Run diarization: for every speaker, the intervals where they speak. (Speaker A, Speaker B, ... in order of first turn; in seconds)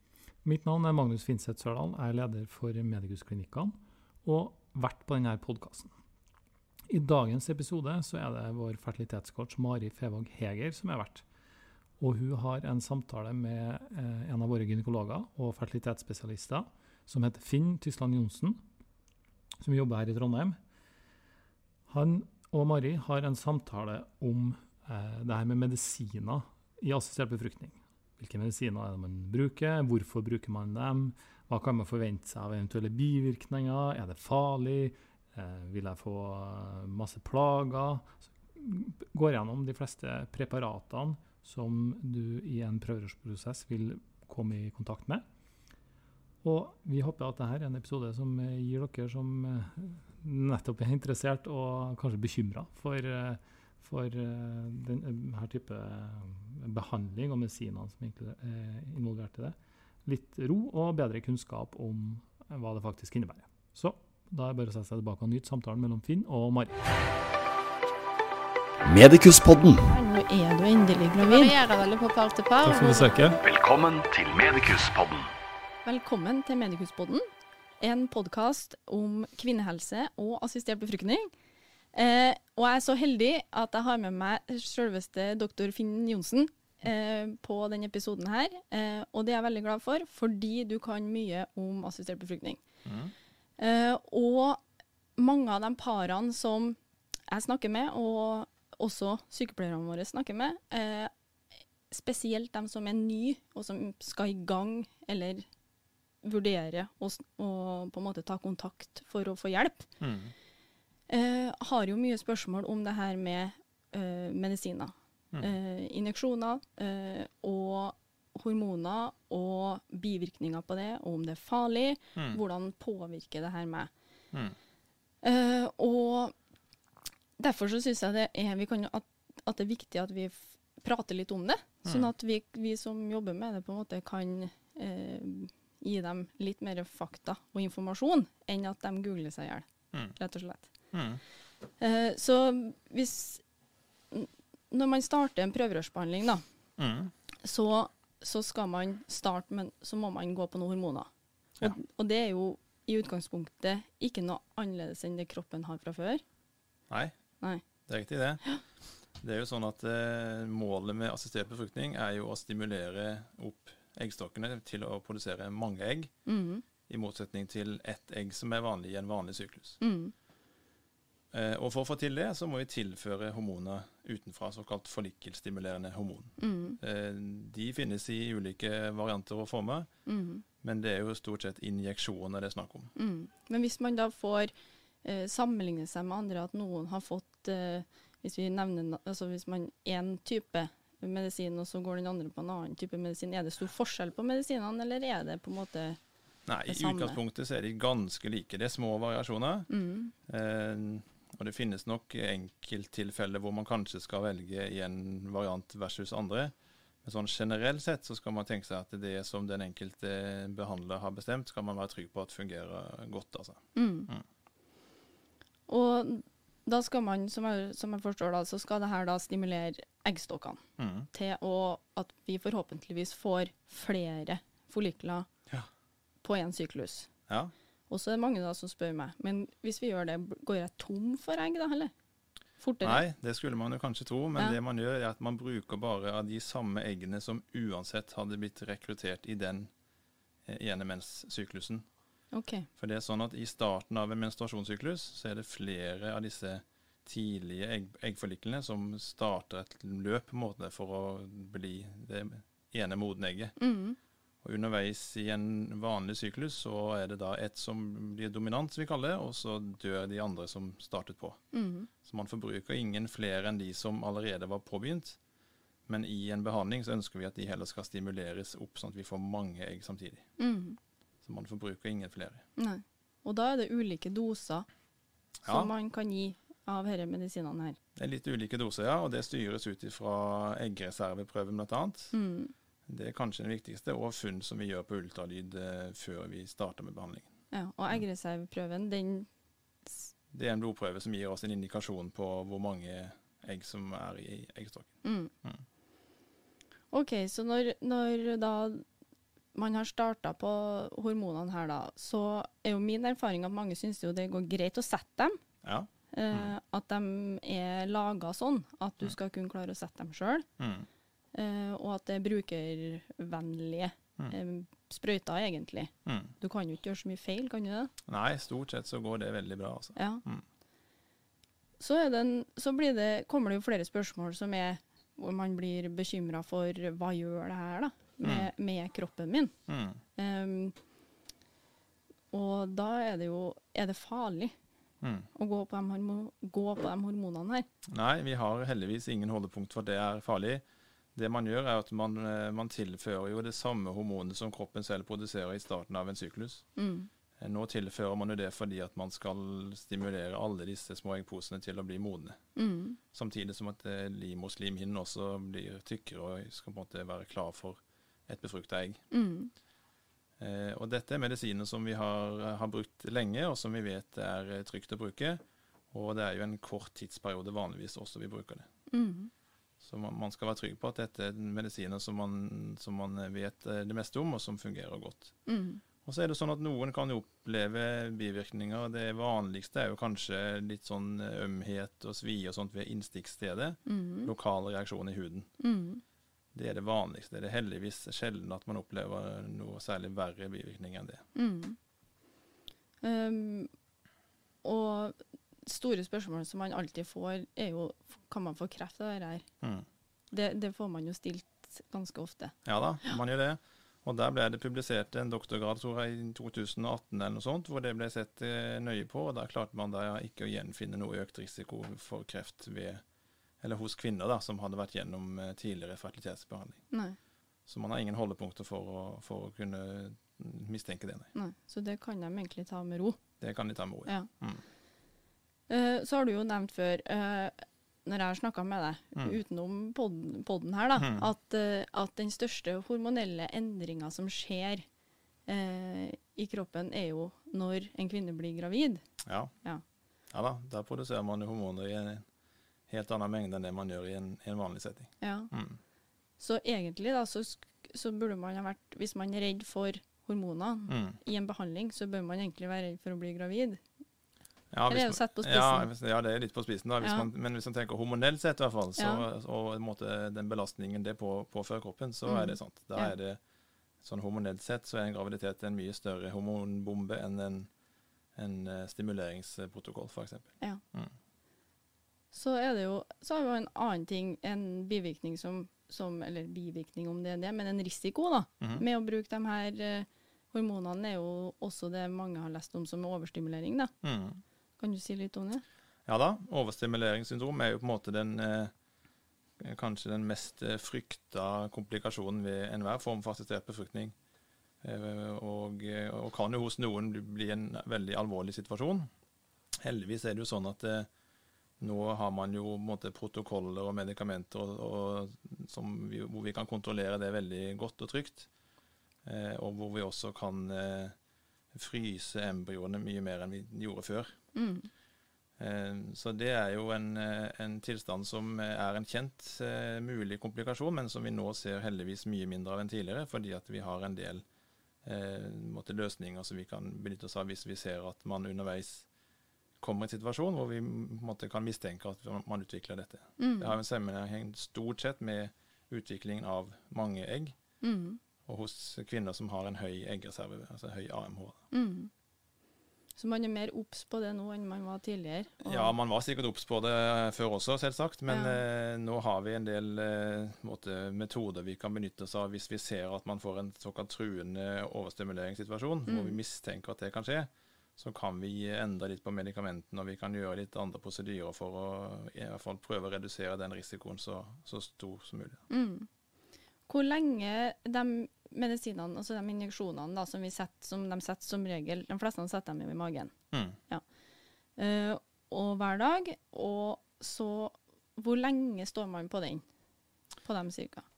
Speaker A: 0.4-5.9, 6.9-11.2, 12.0-18.6, 19.6-20.6, 21.9-45.2, 46.4-66.8, 72.6-73.4
Speaker B: 68.9-69.9, 73.4-75.3
Speaker C: 69.8-71.5, 75.8-77.3, 77.8-81.3, 81.9-92.6, 93.6-94.6, 95.2-96.8, 97.3-101.1, 101.9-105.5, 106.2-109.9, 111.1-123.9, 125.2-126.3, 127.4-140.7, 141.8-143.4, 144.1-146.4, 147.4-151.1, 151.6-156.2, 166.2-166.6, 169.8-170.1, 176.4-176.8, 180.1-180.4, 182.9-184.5, 185.0-196.0, 196.7-197.2, 199.7-200.1, 213.7-214.1, 215.7-220.6, 221.1-225.3, 226.2-227.1, 227.9-231.9, 232.6-233.0, 242.3-242.7, 253.6-254.0, 261.5-261.9, 270.4-270.8, 272.6-274.7, 275.5-277.8, 282.1-282.5, 287.5-289.3, 295.0-295.3, 296.9-298.8, 299.5-305.4, 306.1-310.5, 311.3-317.9, 320.0-320.2, 321.8-329.5, 330.2-330.8, 332.3-334.6, 335.4-337.7, 346.8-347.1, 352.6-353.0, 359.1-359.5, 368.9-369.3, 375.5-375.8, 383.9-384.3, 385.6-386.0, 391.4-391.8, 393.0-393.7, 394.6-399.4, 400.3-403.2, 416.9-417.2, 421.3-423.2, 425.7-434.9, 435.5-439.0, 445.2-445.5, 446.4-453.8, 454.9-455.9, 457.0-457.3, 459.0-459.2, 462.2-463.1, 472.3-483.9, 484.8-485.6, 514.5-514.9, 533.4-533.8, 537.8-538.2, 541.7-542.1, 543.1-545.9, 548.3-548.6, 556.1-556.4, 565.7-566.1, 566.9-573.3, 574.8-579.6, 580.4-581.0
Speaker D: 71.2-73.4
Speaker E: 92.8-93.1, 110.0-110.3, 131.8-132.1, 140.9-141.2, 146.8-147.1, 156.9-157.1, 157.8-158.4, 159.1-166.1, 166.9-169.8, 171.3-179.9, 180.6-182.9, 196.5-199.7, 200.3-214.2, 220.8-221.1, 232.8-239.7, 240.4-241.8, 242.8-253.5, 254.4-261.4, 262.0-265.2, 265.9-270.2, 271.2-272.4, 275.4-275.7, 278.0-282.1, 282.9-287.3, 290.3-295.6, 305.6-306.5, 310.6-310.9, 316.1-316.3, 318.1-320.4, 328.2-328.5, 329.7-330.0, 335.0-335.3, 337.9-340.6, 341.1-346.6, 347.4-352.4, 353.1-359.0, 360.4-368.7, 369.8-375.3, 376.0-385.5, 386.5-391.2, 402.6-413.0, 413.6-416.8, 417.7-421.3, 423.4-424.6, 431.0-431.3, 439.2-439.5, 440.3-442.2, 442.9-445.8, 450.9-451.2, 454.7-463.4, 464.0-467.7, 468.4-471.1, 484.0-484.4, 486.1-488.7, 489.6-494.1, 494.8-499.1, 499.8-501.1, 501.8-508.5, 509.2-511.1, 511.7-514.4, 515.6-524.5, 525.0-529.1, 529.8-537.5, 538.5-541.6, 545.6-565.6, 573.5-573.8